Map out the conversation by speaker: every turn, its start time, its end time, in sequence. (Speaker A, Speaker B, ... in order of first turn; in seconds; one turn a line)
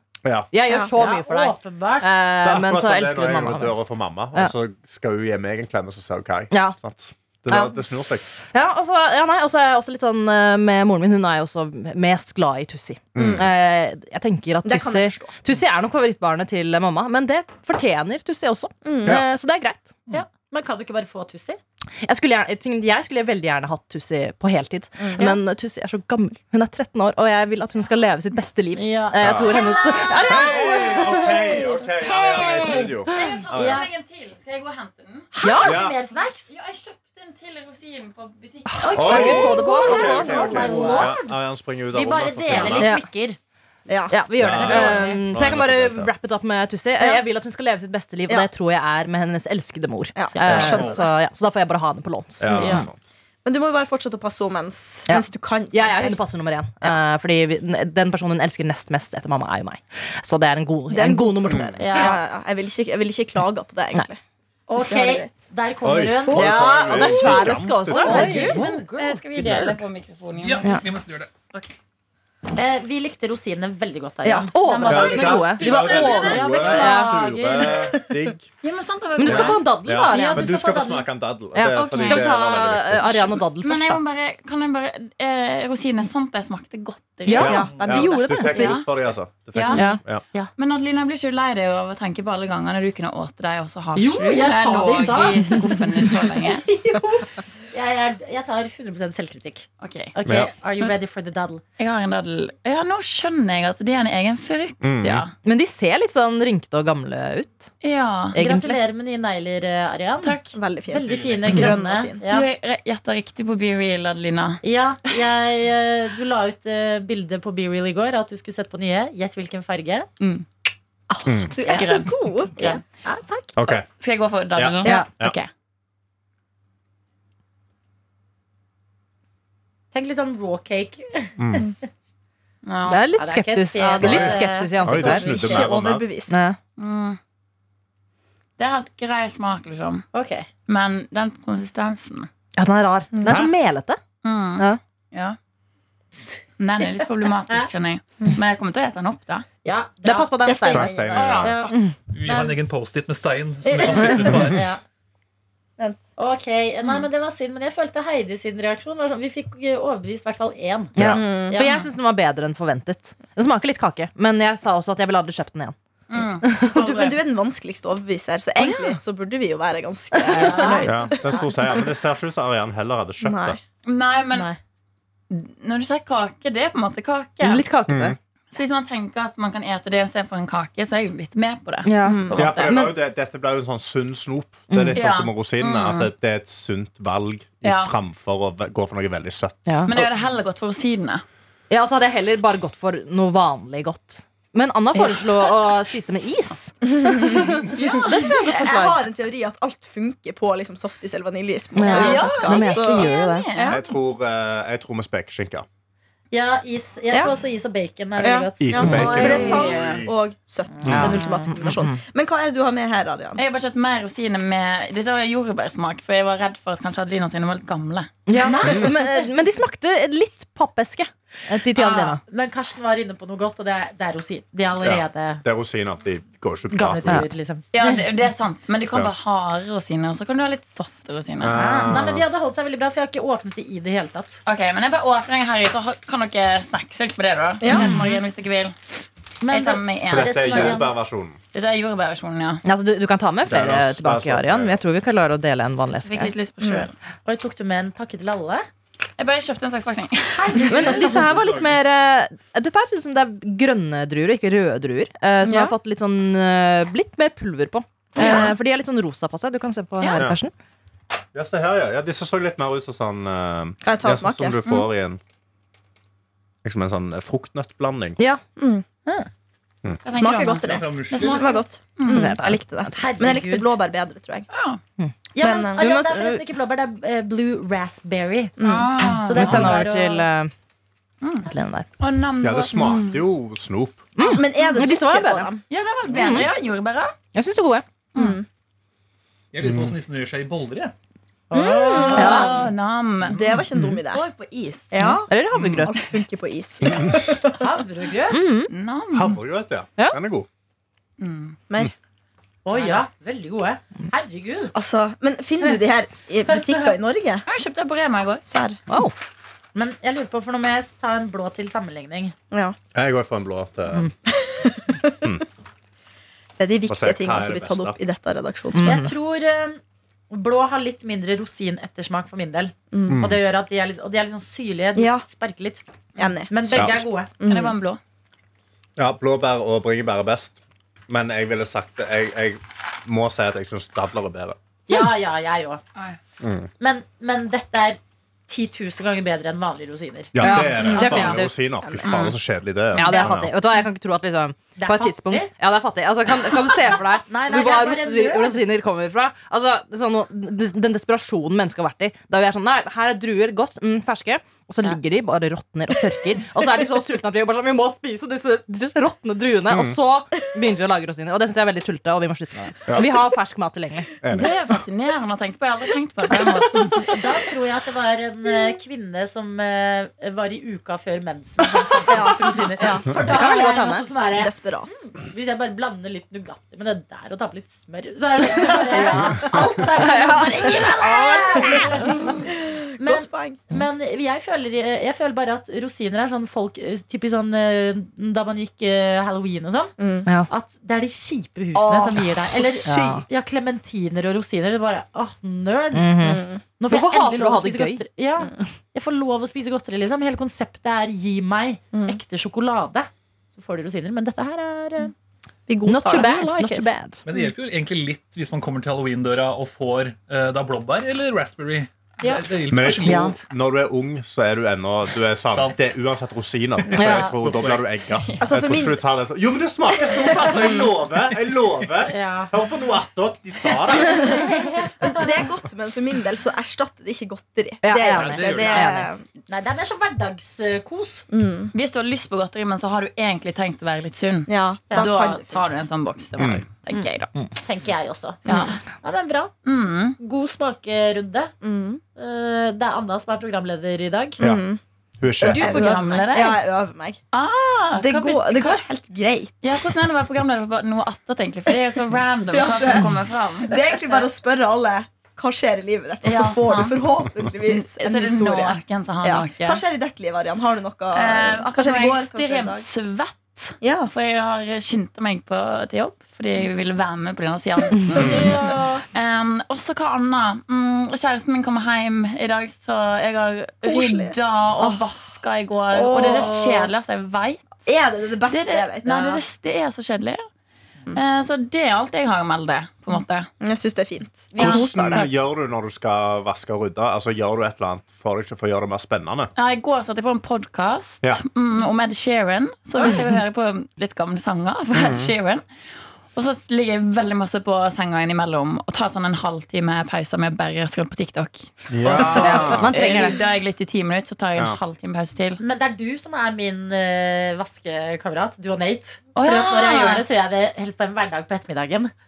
Speaker A: 0.2-0.5
Speaker B: 0.5-4.5
Speaker C: 0.7-0.9
Speaker D: 0.9-2.1
Speaker A: 2.4-8.3
Speaker B: 6.5-6.8
Speaker B: 7.5-7.8
Speaker B: 8.5-20.0
Speaker A: 13.1-13.4
Speaker C: 13.2-13.4
Speaker C: 14.6-15.3
Speaker C: 18.8-19.2
Speaker D: 20.1-21.6
Speaker B: 22.0-31.4
Speaker C: 25.0-25.4
Speaker D: 28.8-33.0
Speaker A: 29.2-29.6
Speaker E: 29.6-30.5
Speaker A: 30.2-33.8
Speaker E: 33.1-35.3
Speaker D: 33.5-33.9
Speaker D: 35.3-36.5
Speaker B: 35.4-35.8
Speaker A: 35.6-36.0
Speaker E: 36.1-39.5
Speaker B: 38.7-40.9
Speaker D: 38.8-41.4
Speaker A: 38.9-42.9
Speaker E: 40.1-41.1
Speaker D: 41.9-43.4
Speaker B: 42.6-43.0
Speaker C: 43.9-44.2
Speaker B: 44.1-52.9
Speaker A: 44.4-46.1
Speaker D: 44.4-45.2
Speaker C: 50.1-51.1
Speaker A: 50.4-51.0
Speaker A: 52.4-53.1
Speaker D: 52.6-52.9
Speaker C: 53.4-56.2
Speaker B: 55.1-61.8
Speaker C: 60.9-64.2
Speaker D: 61.8-62.2
Speaker D: 64.7-66.6
Speaker C: 64.8-65.3
Speaker A: 65.8-68.4
Speaker B: 66.3-68.7
Speaker D: 67.9-69.8
Speaker E: 67.9-70.9
Speaker F: 70.3-71.3
Speaker D: 72.5-77.9
Speaker C: 74.2-74.5
Speaker B: 74.5-77.1
Speaker E: 74.7-77.0
Speaker A: 74.8-78.5
Speaker E: 78.6-79.7
Speaker B: 79.2-80.5
Speaker A: 79.2-83.4
Speaker D: 80.0-81.1
Speaker B: 81.5-84.0
Speaker E: 81.6-82.6
Speaker E: 83.6-87.6
Speaker B: 87.3-88.7
Speaker A: 87.4-90.2
Speaker C: 87.4-88.8
Speaker F: 87.6-88.0
Speaker E: 88.4-88.8
Speaker E: 89.5-89.9
Speaker D: 89.7-90.5
Speaker B: 89.7-90.0
Speaker E: 90.6-96.7
Speaker D: 93.9-101.6
Speaker E: 99.8-100.1
Speaker A: 100.2-100.5
Speaker E: 101.8-105.3
Speaker A: 104.8-105.2
Speaker B: 105.4-107.7
Speaker E: 107.8-108.4
Speaker B: 108.3-108.8
Speaker D: 108.3-112.5
Speaker E: 110.2-110.6
Speaker C: 110.5-112.2
Speaker F: 111.0-111.6
Speaker E: 112.2-114.6
Speaker D: 114.6-120.1
Speaker C: 121.1-122.8
Speaker A: 121.2-121.5
Speaker D: 121.6-123.5
Speaker E: 121.7-122.8
Speaker A: 123.5-123.9
Speaker E: 123.7-125.5
Speaker A: 124.5-125.3
Speaker D: 129.9-131.7
Speaker A: 131.4-131.7
Speaker E: 132.6-133.0
Speaker B: 132.9-135.4
Speaker D: 133.2-135.6
Speaker C: 133.8-134.3
Speaker A: 134.0-136.1
Speaker C: 134.9-136.4
Speaker B: 136.3-136.6
Speaker E: 136.8-137.2
Speaker E: 138.6-140.0
Speaker D: 140.1-140.5
Speaker E: 140.7-142.3
Speaker B: 142.6-144.0
Speaker C: 143.1-143.4
Speaker A: 143.2-143.5
Speaker E: 144.2-145.4
Speaker E: 146.6-149.4
Speaker D: 149.6-150.3
Speaker B: 150.0-151.1
Speaker C: 150.4-151.5
Speaker A: 150.7-151.6
Speaker E: 151.1-151.8
Speaker D: 151.4-151.7
Speaker F: 152.1-154.7
Speaker D: 152.3-152.6
Speaker C: 153.6-154.4
Speaker D: 154.4-154.8
Speaker D: 156.2-161.9
Speaker B: 160.9-165.8
Speaker A: 161.0-161.2
Speaker C: 161.0-161.6
Speaker E: 166.1-167.2
Speaker B: 166.4-166.8
Speaker C: 166.7-171.5
Speaker B: 168.6-169.0
Speaker B: 170.2-170.6
Speaker D: 170.3-171.5
Speaker A: 170.8-173.6
Speaker C: 173.2-173.6
Speaker E: 173.8-174.5
Speaker D: 174.3-174.6
Speaker E: 175.3-177.7
Speaker B: 177.4-178.2
Speaker A: 177.9-178.2
Speaker E: 178.5-182.9
Speaker B: 181.8-182.9
Speaker C: 182.0-182.4
Speaker A: 182.3-190.1
Speaker B: 184.7-185.0
Speaker E: 184.9-186.1
Speaker E: 187.6-187.9
Speaker B: 189.7-189.9
Speaker E: 189.8-191.2
Speaker B: 191.7-199.0
Speaker E: 194.9-195.4
Speaker C: 196.9-203.8
Speaker E: 197.6-198.4
Speaker B: 201.8-203.5
Speaker E: 201.9-203.8
Speaker A: 203.6-205.7
Speaker D: 206.3-209.8
Speaker C: 208.2-213.4
Speaker A: 208.6-210.1
Speaker B: 208.8-209.3
Speaker E: 208.9-210.0
Speaker A: 210.8-211.2
Speaker B: 210.9-212.0
Speaker D: 210.9-211.4
Speaker E: 213.3-218.8
Speaker B: 218.3-222.2
Speaker D: 218.4-218.9
Speaker A: 218.6-218.9
Speaker D: 221.8-225.4
Speaker A: 224.8-227.2
Speaker D: 226.7-227.9
Speaker E: 227.7-231.9
Speaker A: 231.4-232.2
Speaker D: 231.5-234.4
Speaker E: 234.4-238.8
Speaker C: 237.6-238.0
Speaker D: 237.7-238.0
Speaker D: 239.4-240.9
Speaker E: 239.5-240.8
Speaker A: 240.1-241.4
Speaker E: 241.5-242.6
Speaker B: 242.6-246.3
Speaker A: 243.5-244.8
Speaker E: 246.0-246.9
Speaker C: 246.6-246.9
Speaker D: 247.2-248.7
Speaker E: 249.2-251.0
Speaker D: 250.3-251.3
Speaker B: 250.6-260.5
Speaker F: 251.1-251.7
Speaker C: 255.4-255.7
Speaker C: 258.2-258.5
Speaker E: 258.2-258.5
Speaker A: 261.3-265.2
Speaker C: 263.8-264.6
Speaker A: 266.6-268.2
Speaker C: 268.6-268.8
Speaker E: 270.0-272.3
Speaker C: 270.1-274.5
Speaker F: 270.6-271.6
Speaker B: 272.1-273.0
Speaker D: 272.9-273.8
Speaker E: 274.5-274.8
Speaker D: 275.3-278.6
Speaker C: 275.4-275.9
Speaker B: 275.8-276.4
Speaker C: 278.6-279.0
Speaker E: 278.6-279.9
Speaker D: 279.2-280.3
Speaker B: 279.3-280.5
Speaker E: 281.2-283.0
Speaker B: 281.5-281.9
Speaker A: 282.4-284.1
Speaker C: 282.8-283.2
Speaker B: 284.1-285.5
Speaker C: 284.2-285.6
Speaker E: 285.7-287.1
Speaker B: 286.1-286.5
Speaker B: 287.3-287.8
Speaker C: 288.1-288.5
Speaker F: 289.5-290.9
Speaker A: 289.6-289.9
Speaker D: 291.5-292.7
Speaker C: 291.5-292.5
Speaker E: 291.9-294.9
Speaker B: 292.1-292.6
Speaker C: 293.2-294.2
Speaker C: 294.9-297.6
Speaker B: 295.0-296.0
Speaker D: 297.5-298.4
Speaker B: 298.3-298.7
Speaker E: 298.7-299.4
Speaker A: 299.1-300.5
Speaker E: 301.2-301.6
Speaker D: 302.6-304.7
Speaker E: 302.7-303.0
Speaker C: 304.7-307.5
Speaker D: 306.5-306.9
Speaker E: 307.5-308.4
Speaker C: 308.5-308.8
Speaker B: 308.9-309.1
Speaker D: 309.8-312.3
Speaker C: 312.5-312.8
Speaker A: 312.9-314.1
Speaker C: 314.4-315.3
Speaker C: 316.6-319.0
Speaker A: 316.9-318.0
Speaker B: 318.7-319.1
Speaker D: 318.8-325.8
Speaker C: 322.9-323.2
Speaker A: 323.1-323.4
Speaker C: 325.0-325.2
Speaker C: 326.2-327.8
Speaker D: 326.5-327.3
Speaker A: 326.7-327.0
Speaker E: 327.4-328.0
Speaker A: 329.0-334.6
Speaker D: 334.9-335.8
Speaker A: 336.4-336.7
Speaker D: 336.8-340.3
Speaker A: 340.3-343.5
Speaker B: 340.4-341.5
Speaker E: 340.4-341.4
Speaker C: 340.9-341.3
Speaker C: 341.8-342.3
Speaker E: 342.0-342.3
Speaker B: 342.9-364.1
Speaker D: 344.8-345.5
Speaker D: 347.2-348.6
Speaker A: 359.7-360.0
Speaker A: 364.2-364.6
Speaker E: 364.3-367.1
Speaker D: 367.0-374.5
Speaker C: 372.0-373.1
Speaker B: 373.2-374.1
Speaker C: 374.3-374.9
Speaker D: 375.0-382.4
Speaker C: 378.8-379.6
Speaker B: 380.0-380.9
Speaker E: 380.3-381.7
Speaker C: 380.6-383.6
Speaker D: 383.0-389.9
Speaker C: 390.0-390.3
Speaker D: 390.5-405.1
Speaker C: 391.8-393.2
Speaker B: 392.8-393.2
Speaker B: 395.9-398.0
Speaker C: 396.2-396.6
Speaker C: 401.9-402.2
Speaker C: 405.7-406.8
Speaker B: 405.9-407.2
Speaker D: 406.1-406.8
Speaker F: 407.2-413.4
Speaker A: 412.7-424.4
Speaker F: 415.5-415.9
Speaker B: 416.9-417.3
Speaker F: 416.9-418.0
Speaker C: 418.4-419.0
Speaker C: 420.2-420.5
Speaker D: 422.1-422.5
Speaker D: 424.2-425.3
Speaker C: 425.0-429.2
Speaker B: 427.8-429.1
Speaker F: 428.0-428.9
Speaker D: 429.5-431.3
Speaker C: 431.3-431.7
Speaker E: 431.7-437.3
Speaker C: 434.5-435.6
Speaker A: 436.4-436.6
Speaker D: 437.6-439.5
Speaker C: 438.5-438.8
Speaker E: 438.5-438.8
Speaker E: 439.6-440.2
Speaker D: 440.2-441.5
Speaker C: 441.6-442.0
Speaker D: 442.1-444.4
Speaker C: 444.4-444.8
Speaker A: 445.2-445.9
Speaker E: 445.4-446.6
Speaker C: 445.4-447.2
Speaker E: 447.3-448.8
Speaker C: 447.9-449.8
Speaker E: 449.6-454.3
Speaker C: 452.5-462.9
Speaker E: 456.2-457.1
Speaker E: 457.6-459.8
Speaker E: 461.1-477.6
Speaker C: 463.8-464.1
Speaker C: 468.0-468.8
Speaker A: 468.1-468.5
Speaker D: 468.2-469.0
Speaker C: 473.8-475.0
Speaker C: 475.9-476.9
Speaker C: 477.8-479.4
Speaker E: 478.4-480.4
Speaker E: 481.1-483.5
Speaker C: 483.6-485.3
Speaker E: 484.5-485.3
Speaker A: 484.6-489.5
Speaker E: 489.6-495.6
Speaker A: 494.9-495.3
Speaker E: 496.3-505.6
Speaker A: 501.9-503.0
Speaker B: 502.1-503.4
Speaker D: 505.6-512.1
Speaker E: 509.3-510.2